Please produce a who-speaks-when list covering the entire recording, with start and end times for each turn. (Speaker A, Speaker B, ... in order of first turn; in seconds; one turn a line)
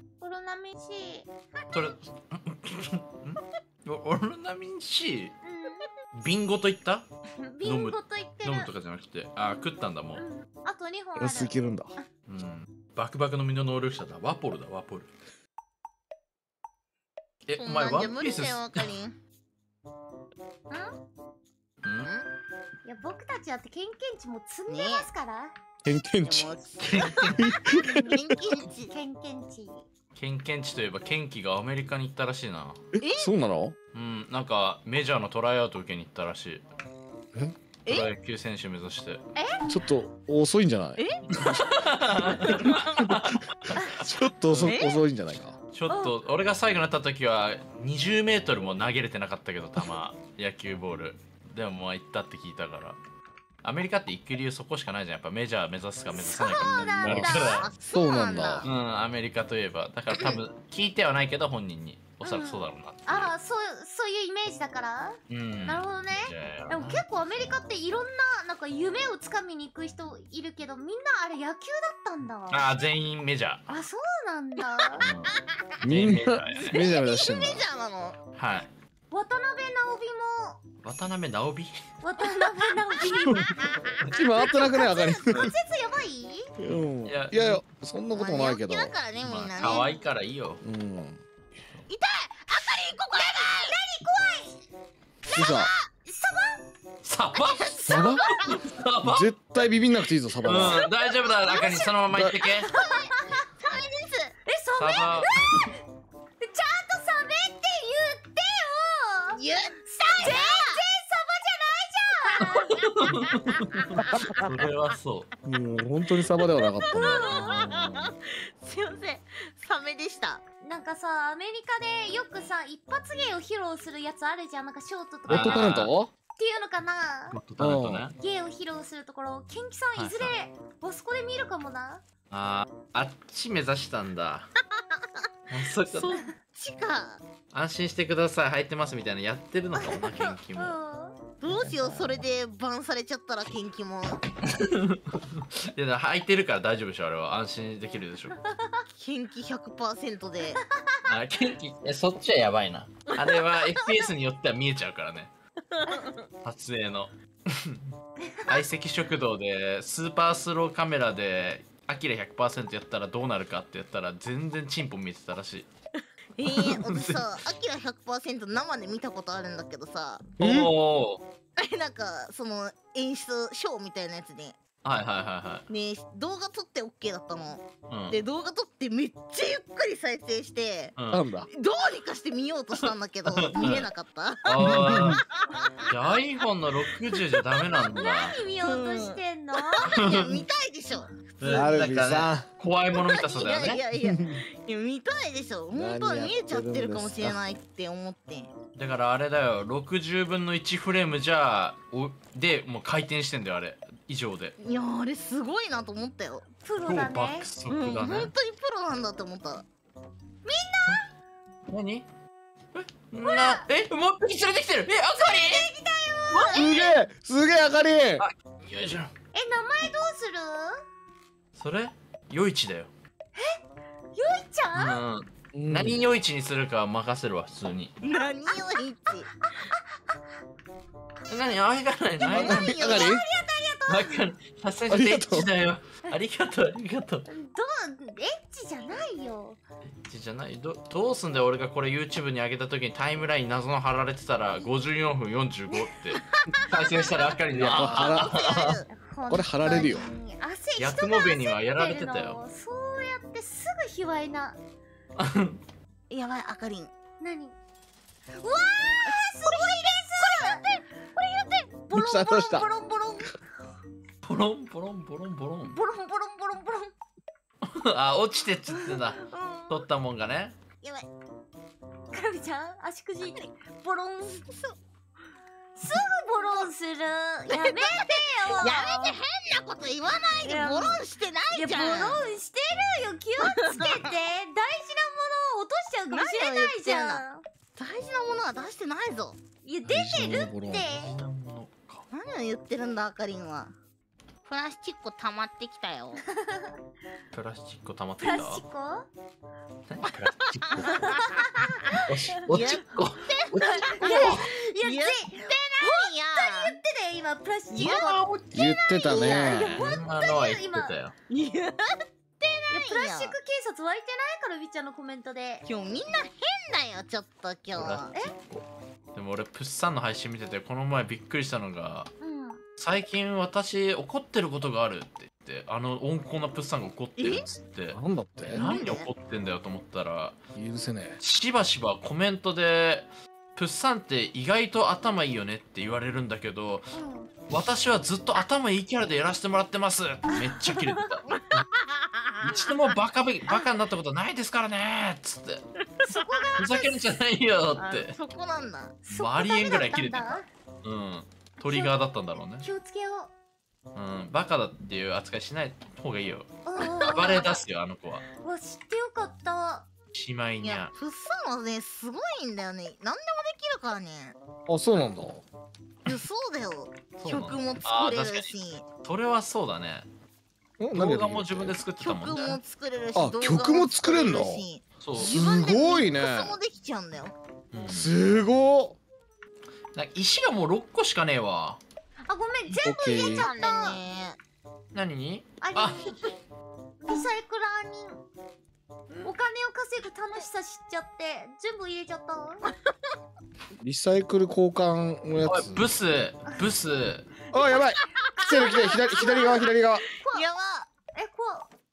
Speaker A: 0.2-1.9
Speaker B: 1.7-5.3
Speaker A: 5.4-5.9
Speaker B: 6.1-7.0
Speaker A: 7.4-8.7
Speaker B: 7.6-10.2
Speaker A: 10.1-12.1
Speaker C: 11.2-11.9
Speaker B: 12.3-15.1
Speaker B: 17.4-18.9
Speaker D: 17.6-19.1
Speaker B: 21.8-22.1
Speaker D: 22.0-22.2
Speaker A: 22.8-25.5
Speaker D: 24.7-25.1
Speaker C: 25.8-26.5
Speaker D: 26.2-28.9
Speaker B: 26.8-27.4
Speaker C: 27.3-28.1
Speaker A: 28.7-29.9
Speaker B: 30.1-32.8
Speaker C: 32.9-33.8
Speaker D: 33.0-33.3
Speaker B: 33.9-36.6
Speaker B: 37.9-39.2
Speaker A: 39.3-39.6
Speaker C: 39.6-41.0
Speaker D: 41.0-41.4
Speaker B: 41.3-43.9
Speaker C: 42.4-45.6
Speaker B: 44.4-44.8
Speaker D: 44.7-45.0
Speaker B: 45.7-53.0
Speaker A: 45.9-46.1
Speaker B: 53.6-57.7
Speaker A: 56.1-57.7
Speaker C: 57.0-57.3
Speaker D: 57.5-58.7
Speaker C: 57.9-58.7
Speaker B: 58.6-63.3
Speaker A: 62.2-72.6
Speaker B: 65.3-67.0
Speaker B: 72.5-73.6
Speaker A: 73.7-75.0
Speaker B: 75.0-76.8
Speaker C: 75.8-77.6
Speaker D: 76.6-78.2
Speaker B: 78.3-78.7
Speaker A: 79.1-80.6
Speaker B: 80.8-81.8
Speaker A: 82.0-83.7
Speaker D: 82.2-82.7
Speaker C: 84.1-85.5
Speaker A: 84.3-86.5
Speaker C: 86.6-89.0
Speaker B: 87.0-87.6
Speaker D: 88.1-90.0
Speaker B: 89.2-90.6
Speaker C: 90.6-91.2
Speaker D: 91.9-93.7
Speaker A: 93.3-94.6
Speaker D: 95.3-95.9
Speaker C: 95.3-95.7
Speaker A: 96.0-96.6
Speaker B: 97.0-99.3
Speaker D: 97.3-98.6
Speaker C: 97.9-98.2
Speaker C: 99.0-100.8
Speaker B: 100.4-102.7
Speaker A: 101.2-101.9
Speaker C: 102.1-102.4
Speaker A: 102.6-103.4
Speaker D: 102.6-104.4
Speaker A: 104.5-105.8
Speaker B: 104.8-105.7
Speaker A: 106.4-112.8
Speaker D: 109.3-110.8
Speaker B: 112.4-115.3
Speaker D: 113.9-114.4
Speaker C: 114.0-114.4
Speaker C: 115.4-117.3
Speaker D: 116.5-120.4
Speaker A: 116.9-117.7
Speaker A: 120.6-125.7
Speaker B: 125.3-125.9
Speaker C: 125.3-126.1
Speaker A: 126.4-127.4
Speaker B: 127.3-128.2
Speaker C: 127.6-128.0
Speaker A: 128.2-132.0
Speaker B: 129.9-130.3
Speaker B: 132.3-134.5
Speaker D: 134.8-135.2
Speaker B: 135.5-136.2
Speaker D: 135.9-137.2
Speaker B: 137.5-140.8
Speaker A: 139.8-141.2
Speaker D: 141.4-144.2
Speaker B: 141.4-142.2
Speaker B: 144.5-148.4
Speaker A: 148.5-148.8
Speaker D: 148.9-150.6
Speaker B: 151.1-155.3
Speaker D: 153.2-154.0
Speaker D: 155.7-156.2
Speaker B: 156.4-157.9
Speaker A: 158.2-158.6
Speaker B: 158.4-165.7
Speaker D: 166.4-170.3
Speaker B: 166.4-167.2
Speaker C: 170.4-170.7
Speaker B: 170.4-171.2
Speaker D: 171.6-174.6
Speaker B: 174.8-175.6
Speaker D: 175.7-180.9
Speaker B: 177.9-178.2
Speaker B: 180.9-181.2
Speaker C: 181.1-181.5
Speaker D: 181.5-184.6
Speaker B: 183.3-183.9
Speaker B: 184.4-185.2
Speaker C: 184.6-185.2
Speaker D: 185.3-185.8
Speaker B: 185.8-188.4
Speaker A: 187.9-190.0
Speaker D: 188.6-191.8
Speaker B: 189.8-190.4
Speaker B: 191.4-193.8
Speaker C: 191.5-192.4
Speaker D: 192.9-198.5
Speaker C: 194.0-194.4
Speaker C: 195.7-197.4
Speaker B: 198.7-204.5
Speaker D: 204.6-206.5
Speaker A: 206.6-207.5
Speaker B: 206.8-208.3
Speaker D: 207.7-209.6
Speaker A: 210.4-211.0
Speaker B: 211.7-212.1
Speaker B: 212.7-215.7
Speaker A: 213.2-213.6
Speaker A: 215.2-216.9
Speaker B: 216.3-216.6
Speaker D: 216.4-216.9
Speaker C: 216.5-218.2
Speaker B: 218.2-219.1
Speaker A: 219.3-220.7
Speaker B: 221.5-222.9
Speaker A: 224.1-225.0
Speaker B: 224.7-227.9
Speaker C: 225.5-226.0
Speaker D: 228.0-229.3
Speaker A: 229.4-230.1
Speaker B: 231.3-233.0
Speaker D: 232.2-233.2
Speaker C: 232.3-233.2
Speaker A: 232.7-234.2
Speaker B: 233.9-237.3
Speaker C: 234.9-235.5
Speaker A: 237.3-239.6
Speaker B: 240.0-248.8
Speaker A: 246.9-247.3
Speaker C: 247.5-248.7
Speaker D: 247.7-248.9
Speaker A: 248.9-254.6
Speaker C: 249.3-250.1
Speaker B: 250.8-252.4
Speaker B: 255.2-255.6
Speaker D: 256.1-256.9
Speaker A: 257.2-257.5
Speaker A: 258.4-260.6
Speaker D: 259.0-261.8
Speaker A: 261.8-263.4
Speaker C: 261.9-262.7
Speaker B: 264.2-265.8
Speaker D: 265.6-266.9
Speaker B: 267.6-270.5
Speaker D: 270.8-271.1
Speaker A: 272.1-274.4
Speaker D: 274.4-274.8
Speaker A: 275.8-279.1
Speaker D: 276.3-276.7
Speaker D: 277.5-282.2
Speaker A: 280.4-287.4
Speaker D: 283.4-284.0
Speaker D: 286.1-287.2
Speaker D: 287.8-289.4
Speaker A: 289.6-291.1
Speaker C: 289.8-290.9
Speaker B: 290.9-292.1
Speaker D: 292.1-293.7
Speaker D: 294.4-296.2
Speaker A: 296.2-296.7
Speaker B: 297.3-298.6
Speaker A: 298.2-299.1
Speaker B: 299.9-301.2
Speaker D: 300.7-301.7
Speaker A: 300.8-301.9
Speaker B: 301.9-304.5
Speaker D: 302.5-306.7
Speaker A: 303.6-308.2
Speaker B: 307.7-308.5
Speaker D: 307.8-309.6
Speaker C: 308.5-309.9
Speaker A: 309.0-310.9
Speaker B: 309.7-311.1
Speaker D: 311.3-313.4
Speaker A: 312.7-315.6
Speaker D: 315.6-318.1
Speaker B: 317.7-322.1
Speaker A: 322.2-322.6
Speaker B: 322.8-330.4
Speaker D: 327.2-327.4
Speaker C: 327.9-328.8
Speaker D: 328.5-329.1
Speaker C: 330.5-331.2
Speaker B: 331.2-336.9
Speaker A: 336.9-337.3
Speaker B: 337.5-341.3
Speaker A: 340.3-340.9
Speaker D: 341.3-342.4
Speaker B: 342.4-345.6
Speaker A: 346.0-347.1
Speaker D: 346.1-346.4
Speaker B: 346.6-348.1
Speaker D: 347.8-349.0
Speaker A: 349.1-350.4
Speaker B: 349.1-352.7
Speaker A: 351.6-351.9
Speaker A: 352.6-353.3
Speaker B: 353.9-358.2
Speaker A: 356.6-357.6
Speaker A: 358.4-359.9
Speaker B: 360.1-360.9
Speaker D: 360.6-364.4
Speaker C: 364.7-365.4
Speaker D: 366.1-368.8
Speaker B: 367.2-368.5
Speaker B: 369.0-370.1
Speaker C: 370.8-371.8
Speaker B: 370.9-372.6
Speaker D: 372.0-377.3
Speaker C: 373.1-374.6
Speaker B: 375.0-375.3
Speaker C: 375.2-376.6
Speaker B: 377.7-378.1
Speaker C: 377.9-379.0
Speaker B: 379.9-381.8
Speaker A: 382.2-384.0
Speaker C: 382.8-383.5
Speaker D: 383.3-384.4
Speaker B: 384.9-386.0
Speaker A: 385.6-386.3
Speaker A: 387.0-388.2
Speaker A: 389.2-392.7
Speaker C: 393.8-395.9
Speaker B: 395.4-397.3
Speaker C: 397.5-400.0
Speaker A: 398.4-400.5
Speaker D: 398.4-399.4
Speaker D: 400.3-400.9
Speaker A: 401.1-401.7